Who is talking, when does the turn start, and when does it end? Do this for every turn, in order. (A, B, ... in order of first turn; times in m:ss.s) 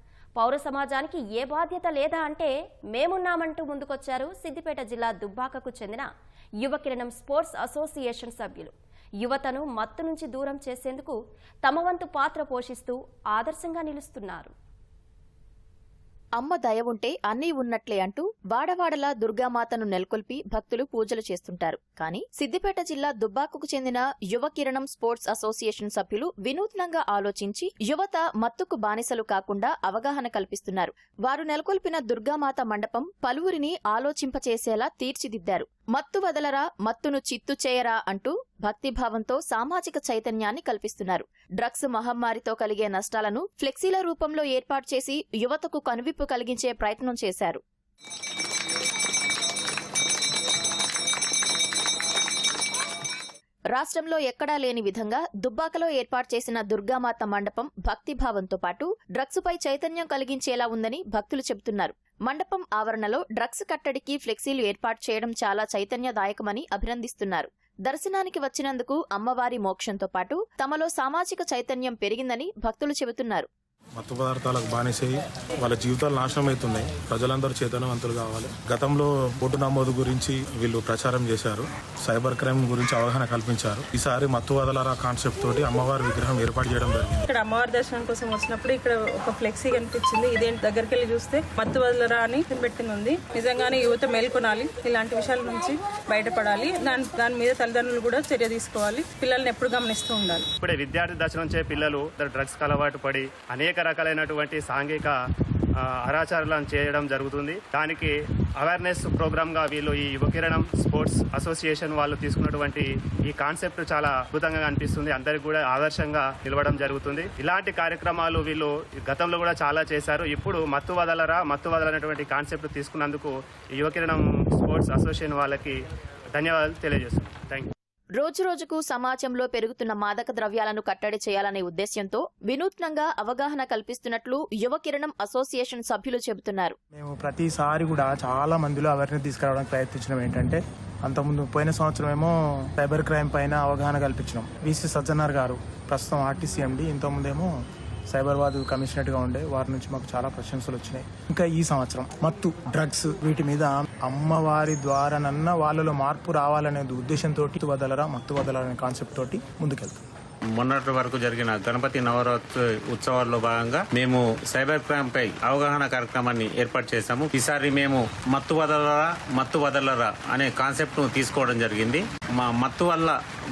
0:00.4-0:06.1 A
0:06.6-0:14.5 A
0:16.4-0:47.6 B
0:53.7-1:13.5 B
1:14.0-1:27.3 C
1:27.3-1:40.5 D
1:40.6-1:45.1 E
1:45.8-2:05.8 E
2:06.4-2:07.7 E
2:08.2-2:16.8 B
2:16.9-2:27.5 F
2:28.1-2:40.0 F
2:40.6-2:53.2 G